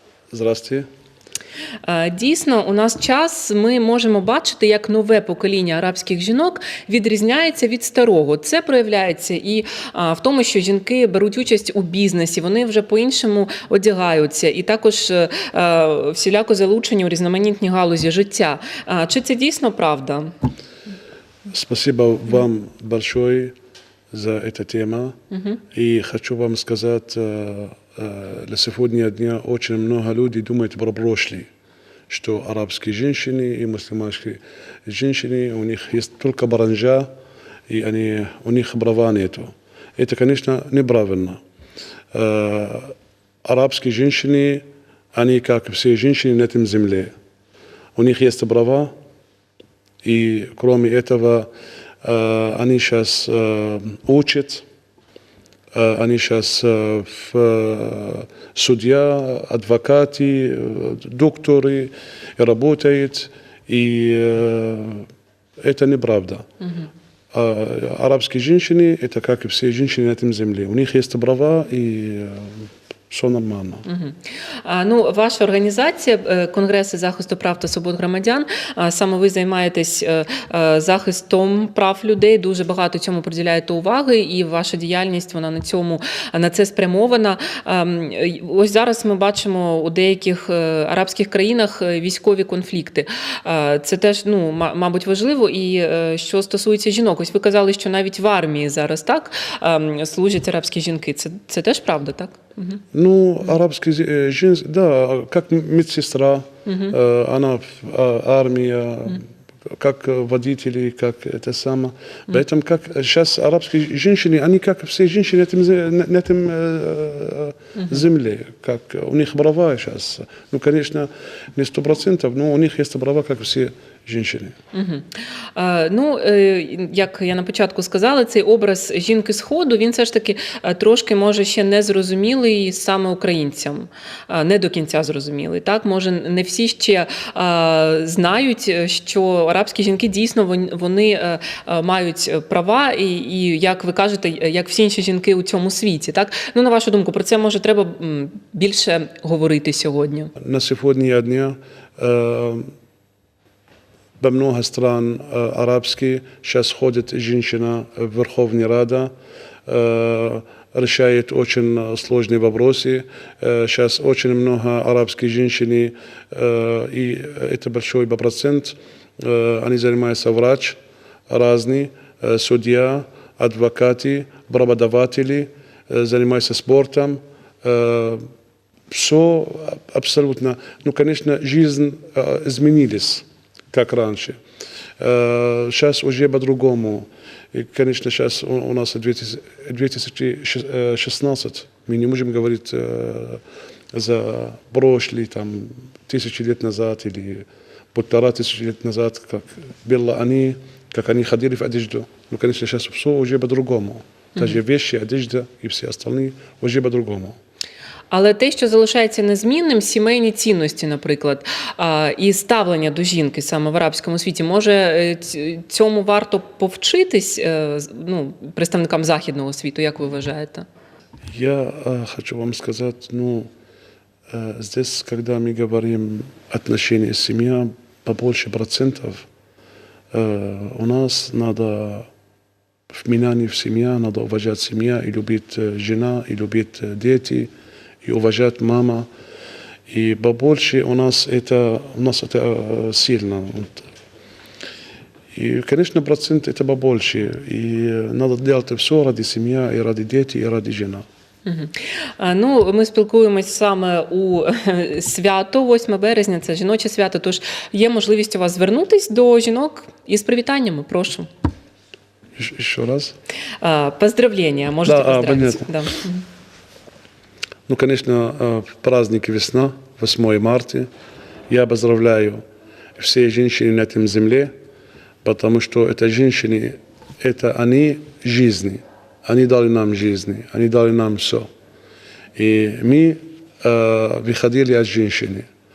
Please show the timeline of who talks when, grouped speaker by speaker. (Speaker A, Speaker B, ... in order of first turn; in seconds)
Speaker A: 0.3-0.9, 21.5-23.5, 24.1-25.1, 25.7-31.5, 32.1-37.1, 37.7-41.4, 42.1-42.9, 43.4-47.1, 48.0-48.9, 50.0-51.5, 52.0-54.6, 55.7-65.0, 65.6-66.4, 67.3-73.8, 102.9-124.5, 150.4-152.7, 154.2-159.1, 159.7-178.2, 178.9-184.4, 185.0-193.4, 193.9-207.4, 221.3-223.5, 224.3-229.3, 230.1-232.1, 232.9-237.5, 238.0-239.1, 239.9-243.8, 245.3-251.0, 262.4-263.1, 264.8-265.7, 267.7-270.9, 271.5-272.4, 273.0-274.5, 275.2-281.5, 282.4-285.4
Speaker B: 1.8-20.3, 25.3-25.6, 73.8-102.8, 106.7-106.9, 124.7-150.3, 208.1-220.6, 251.4-261.3, 263.6-266.2